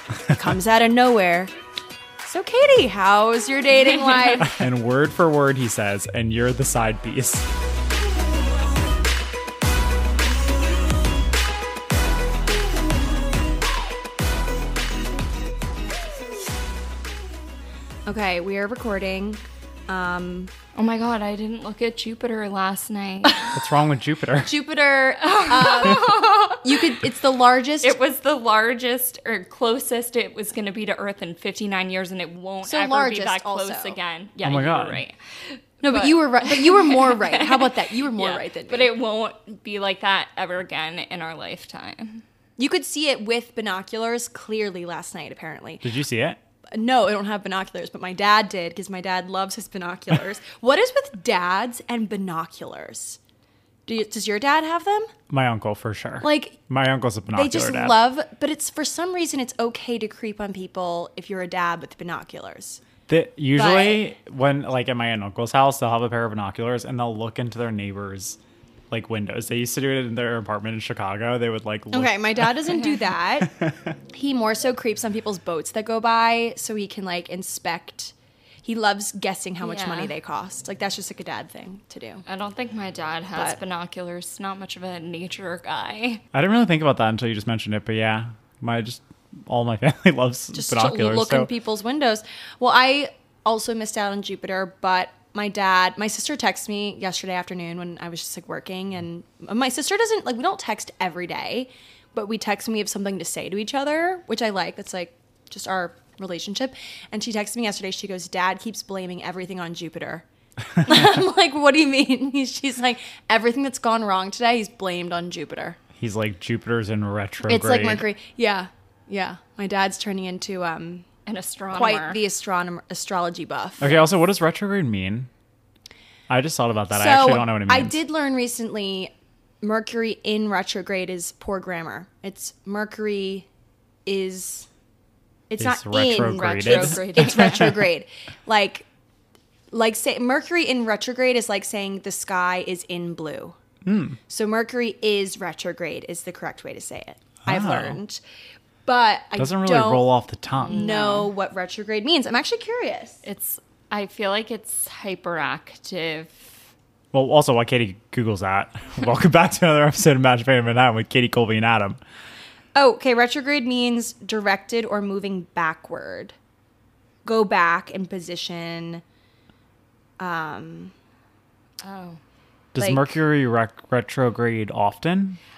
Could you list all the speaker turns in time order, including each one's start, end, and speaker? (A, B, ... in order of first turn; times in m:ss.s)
0:00.3-0:01.5 A
0:02.2-0:04.5 A
0:03.8-0:04.4 B
0:04.4-0:07.5 C
0:18.1-0:20.5 A
0:20.8-0:23.4 B
0:23.5-0:24.6 C
0:24.4-0:28.0 A
0:25.2-0:27.1 B
0:27.8-0:42.2 B
0:32.6-0:34.0 A
0:34.4-0:35.0 C
0:35.8-0:38.9 A
0:42.6-0:45.9 A
0:45.8-0:46.4 C
0:46.7-0:53.2 A
0:53.9-0:55.1 A
0:55.3-0:58.0 C
0:56.2-0:56.6 A
0:57.3-1:02.8 A
1:03.1-1:08.4 C
1:03.6-1:04.0 B
1:08.9-1:13.9 C
1:11.9-1:13.5 A
1:14.1-1:22.2 A
1:19.6-1:20.1 B
1:22.3-1:26.2 B
1:26.3-1:31.5 C
1:30.5-1:50.2 A
1:50.8-1:55.8 A
1:56.0-1:58.1 C
1:57.5-2:01.1 A
2:01.3-2:02.2 B
2:01.7-2:04.0 A
2:03.8-2:05.3 C
2:06.3-2:08.0 C
2:06.9-2:13.5 A
2:14.1-2:14.7 A
2:15.5-2:18.9 A
2:15.6-2:17.8 C
2:16.3-2:17.8 B
2:19.7-2:23.6 A
2:23.8-2:24.2 C
2:24.3-2:28.2 A
2:27.4-2:28.0 C
2:28.8-2:33.2 A
2:29.4-2:30.8 C
2:30.6-2:31.3 B
2:33.2-2:36.5 B
2:37.1-2:42.0 C
2:42.8-2:46.4 A
2:47.2-2:49.0 A
2:50.2-2:50.9 A
2:51.8-2:52.2 B
2:52.8-2:55.4 C
2:52.8-2:53.2 A